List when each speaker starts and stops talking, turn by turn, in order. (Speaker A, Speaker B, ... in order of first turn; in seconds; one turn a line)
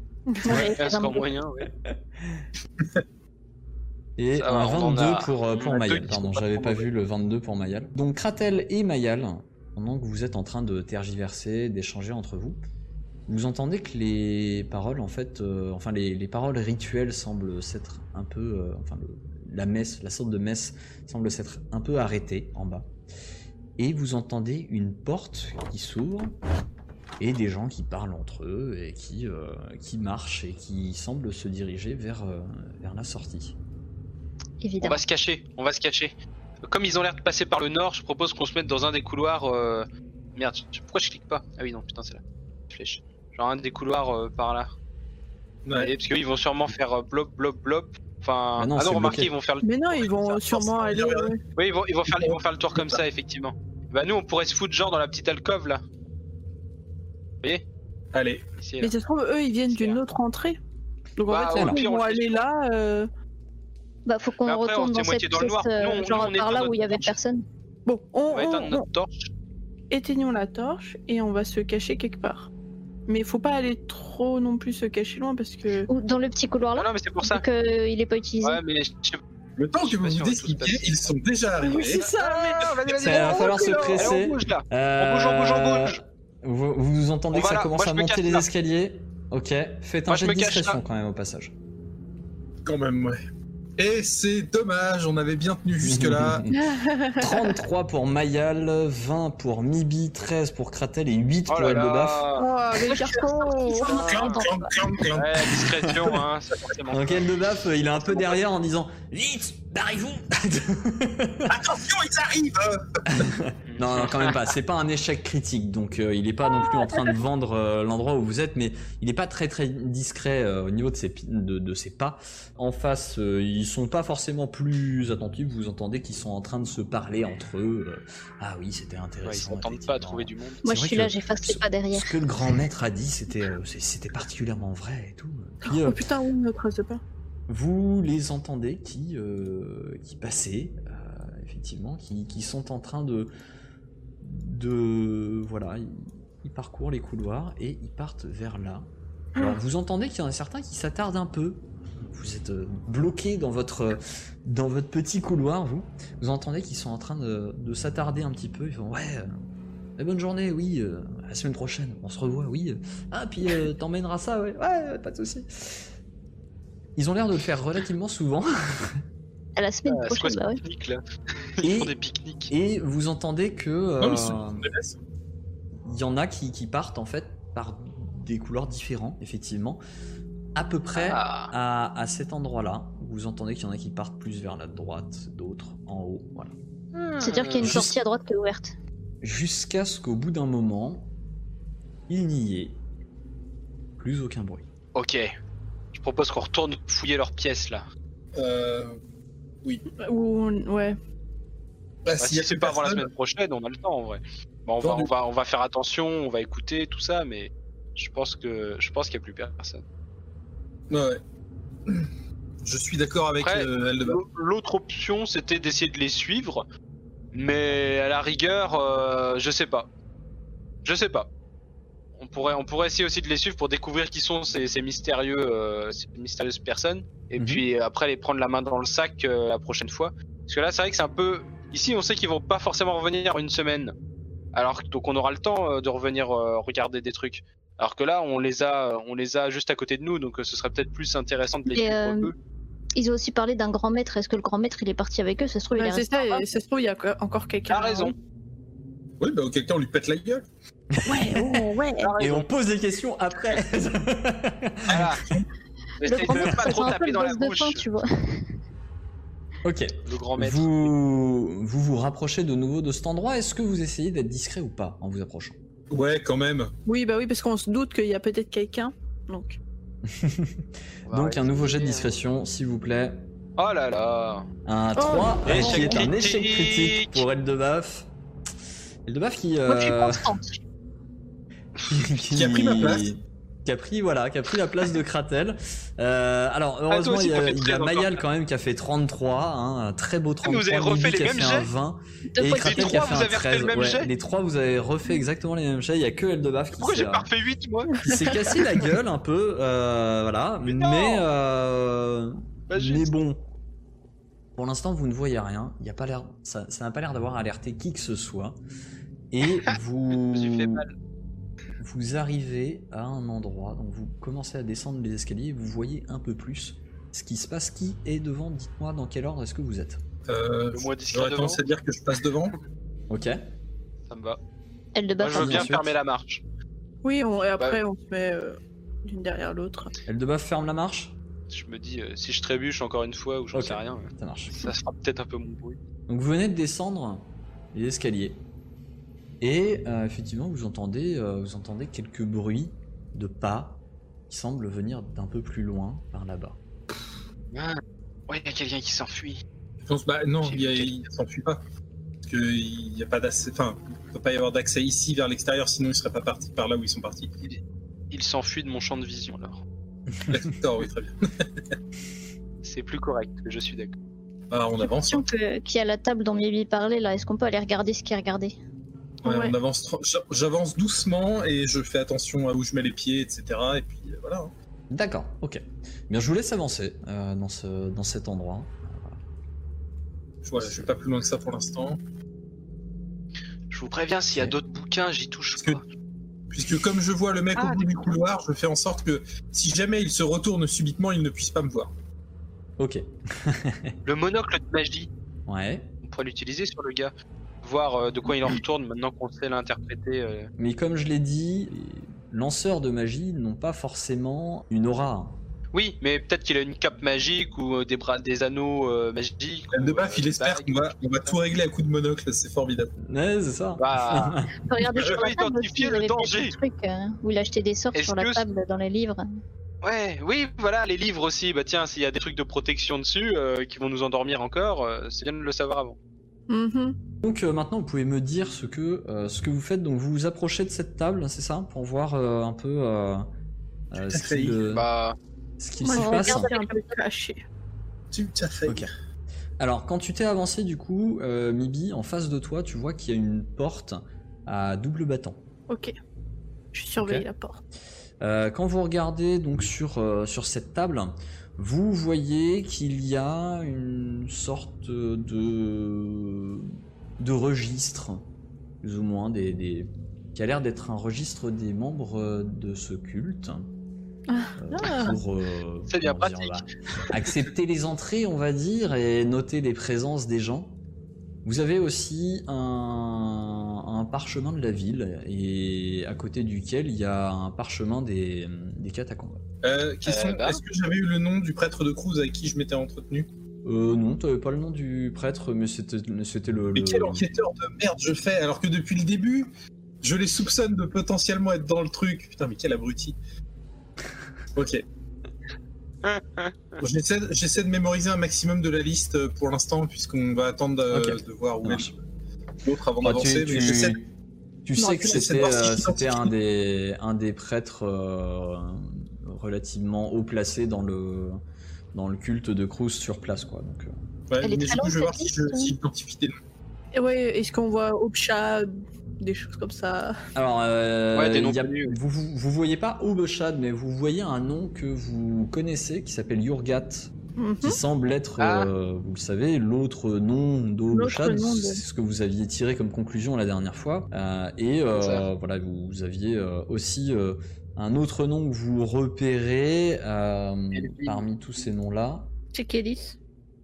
Speaker A: 0.3-0.8
Speaker B: 0.4-1.3
Speaker C: 0.4-1.7
Speaker D: 1.9-2.5
Speaker D: 4.2-12.6
Speaker C: 4.4-6.9
Speaker D: 13.3-22.9
Speaker D: 23.8-26.4
Speaker D: 27.2-33.5
Speaker B: 34.6-35.0
Speaker C: 34.8-44.7
Speaker E: 45.6-45.9
Speaker C: 45.8-50.4
Speaker D: 48.6-49.3
Speaker A: 49.6-51.4
Speaker E: 50.5-51.3
Speaker C: 51.6-55.8
Speaker E: 52.1-53.0
Speaker E: 58.1-58.5
Speaker C: 58.6-59.0
Speaker A: 58.8-60.6
Speaker C: 59.7-60.0
Speaker A: 61.2-63.1
Speaker C: 61.3-62.5
Speaker D: 61.5-61.8
Speaker B: 64.0-67.4
Speaker C: 64.4-67.1
Speaker A: 67.9-68.9
Speaker C: 68.3-69.3
Speaker A: 69.9-72.5
Speaker A: 73.1-75.9
Speaker B: 75.9-78.6
Speaker C: 76.8-77.4
Speaker C: 78.4-79.2
Speaker E: 79.6-82.1
Speaker C: 79.8-81.2
Speaker A: 81.6-84.2
Speaker C: 81.9-86.0
Speaker D: 83.0-91.5
Speaker C: 87.3-88.5
Speaker C: 90.1-90.8
Speaker E: 92.6-93.2
Speaker E: 93.8-96.4
Speaker D: 95.8-96.6
Speaker A: 96.5-97.5
Speaker D: 97.2-102.2
Speaker C: 101.5-102.5
Speaker A: 102.4-104.1
Speaker B: 102.8-104.8
Speaker E: 103.9-105.9
Speaker C: 103.9-104.5
Speaker C: 105.1-107.3
Speaker D: 106.9-111.6
Speaker E: 111.5-113.3
Speaker D: 113.0-136.0
Speaker C: 113.7-114.4
Speaker A: 116.6-117.1
Speaker C: 129.2-130.6
Speaker B: 130.6-132.1
Speaker A: 135.6-137.0
Speaker D: 137.5-143.3
Speaker D: 144.2-159.3
Speaker D: 160.0-165.9
Speaker D: 167.0-169.0
Speaker B: 169.6-170.6
Speaker C: 169.9-171.0
Speaker C: 171.6-172.5
Speaker D: 171.6-171.9
Speaker D: 172.5-174.7
Speaker E: 174.0-175.0
Speaker D: 175.8-179.8
Speaker D: 180.5-186.5
Speaker C: 180.9-181.5
Speaker C: 187.0-187.9
Speaker B: 187.2-188.8
Speaker D: 187.6-188.0
Speaker D: 189.2-191.1
Speaker D: 192.1-192.8
Speaker D: 194.0-194.7
Speaker C: 194.9-195.3
Speaker C: 195.9-197.9
Speaker E: 198.4-199.0
Speaker A: 200.0-201.0
Speaker E: 202.1-203.1
Speaker C: 202.2-209.8
Speaker E: 204.8-205.1
Speaker E: 210.9-211.2
Speaker E: 212.6-214.2
Speaker C: 213.4-216.6
Speaker C: 217.3-219.9
Speaker C: 220.8-221.3
Speaker C: 222.2-233.9
Speaker D: 227.4-227.6
Speaker C: 234.5-242.3
Speaker B: 241.7-242.3
Speaker B: 243.0-246.4
Speaker A: 245.7-248.1
Speaker C: 247.7-248.1
Speaker E: 249.2-250.4
Speaker D: 250.9-255.1
Speaker A: 251.0-252.1
Speaker C: 252.0-252.5
Speaker C: 254.9-255.2
Speaker E: 255.2-255.5
Speaker C: 256.0-257.8
Speaker B: 256.0-258.5
Speaker D: 259.6-265.6
Speaker C: 260.0-260.9
Speaker E: 265.9-266.7
Speaker A: 266.9-269.6
Speaker D: 270.1-273.2
Speaker C: 271.1-272.2
Speaker C: 273.6-274.5
Speaker D: 274.6-278.1
Speaker A: 275.0-276.1
Speaker C: 275.5-277.2
Speaker D: 279.1-280.4
Speaker B: 279.7-280.5
Speaker D: 281.9-297.3
Speaker E: 282.3-283.1
Speaker C: 286.9-288.2
Speaker C: 290.4-291.7
Speaker B: 292.3-293.1
Speaker C: 292.6-294.1
Speaker C: 296.8-298.0
Speaker A: 297.9-298.4
Speaker D: 298.0-303.4
Speaker C: 300.6-301.2
Speaker C: 302.7-303.1
Speaker D: 304.6-308.6
Speaker D: 309.3-310.8
Speaker C: 310.3-310.9
Speaker D: 311.8-320.0
Speaker E: 320.3-322.5
Speaker C: 320.7-321.6
Speaker D: 323.1-323.4
Speaker C: 324.1-324.4
Speaker B: 324.9-325.7
Speaker C: 325.2-326.4
Speaker D: 325.4-326.0
Speaker A: 327.0-329.9
Speaker D: 330.1-331.1
Speaker C: 331.5-335.8
Speaker D: 333.5-334.5
Speaker D: 336.1-338.4
Speaker D: 339.4-346.6
Speaker C: 347.5-349.4
Speaker E: 349.8-351.6
Speaker C: 350.4-350.9
Speaker E: 352.3-357.3
Speaker C: 358.1-359.6
Speaker D: 360.1-360.4
Speaker E: 360.3-361.5
Speaker C: 362.6-363.9
Speaker E: 364.5-365.2
Speaker B: 364.8-368.5
Speaker E: 369.2-374.5
Speaker A: 369.2-369.6
Speaker D: 374.9-379.2
Speaker E: 380.4-382.0
Speaker D: 380.6-380.8
Speaker C: 383.7-385.8
Speaker E: 385.5-385.8
Speaker E: 386.5-391.9
Speaker C: 387.6-388.1
Speaker D: 392.8-393.9
Speaker C: 394.0-395.1
Speaker D: 395.5-395.9
Speaker C: 396.0-400.5
Speaker D: 400.6-405.4
Speaker C: 405.7-411.4
Speaker E: 409.7-412.9
Speaker D: 413.0-414.5
Speaker C: 413.8-414.4
Speaker B: 414.6-419.2
Speaker C: 414.9-416.5
Speaker C: 417.9-418.4
Speaker C: 419.8-426.0
Speaker A: 426.5-427.0
Speaker D: 427.2-433.3
Speaker D: 433.9-434.9
Speaker E: 434.0-434.6
Speaker C: 434.7-435.2
Speaker D: 435.6-436.5
Speaker A: 435.8-437.4
Speaker B: 435.9-436.8
Speaker E: 438.1-438.9
Speaker D: 439.6-445.4
Speaker A: 445.7-445.9
Speaker A: 446.7-447.6
Speaker D: 447.0-447.3
Speaker D: 448.2-458.2
Speaker D: 458.8-463.7
Speaker A: 464.3-465.2
Speaker D: 464.6-470.8
Speaker C: 465.9-466.6
Speaker D: 471.4-479.4
Speaker E: 479.6-483.3
Speaker C: 480.1-480.6
Speaker D: 483.6-487.2
Speaker E: 486.8-489.5
Speaker E: 490.0-493.2
Speaker E: 494.5-494.8
Speaker C: 496.0-496.5
Speaker E: 496.8-502.0
Speaker D: 500.9-501.9
Speaker E: 502.6-504.0
Speaker D: 503.0-504.0
Speaker D: 504.6-511.4
Speaker E: 504.8-506.3
Speaker D: 511.9-513.9
Speaker E: 514.3-516.3
Speaker B: 514.4-515.7
Speaker A: 517.0-520.2
Speaker D: 520.3-527.1
Speaker C: 521.1-522.0
Speaker A: 527.4-527.8
Speaker D: 527.6-542.3
Speaker C: 528.4-528.7
Speaker A: 530.9-531.8
Speaker C: 534.9-535.2
Speaker C: 540.8-541.2
Speaker A: 542.5-543.2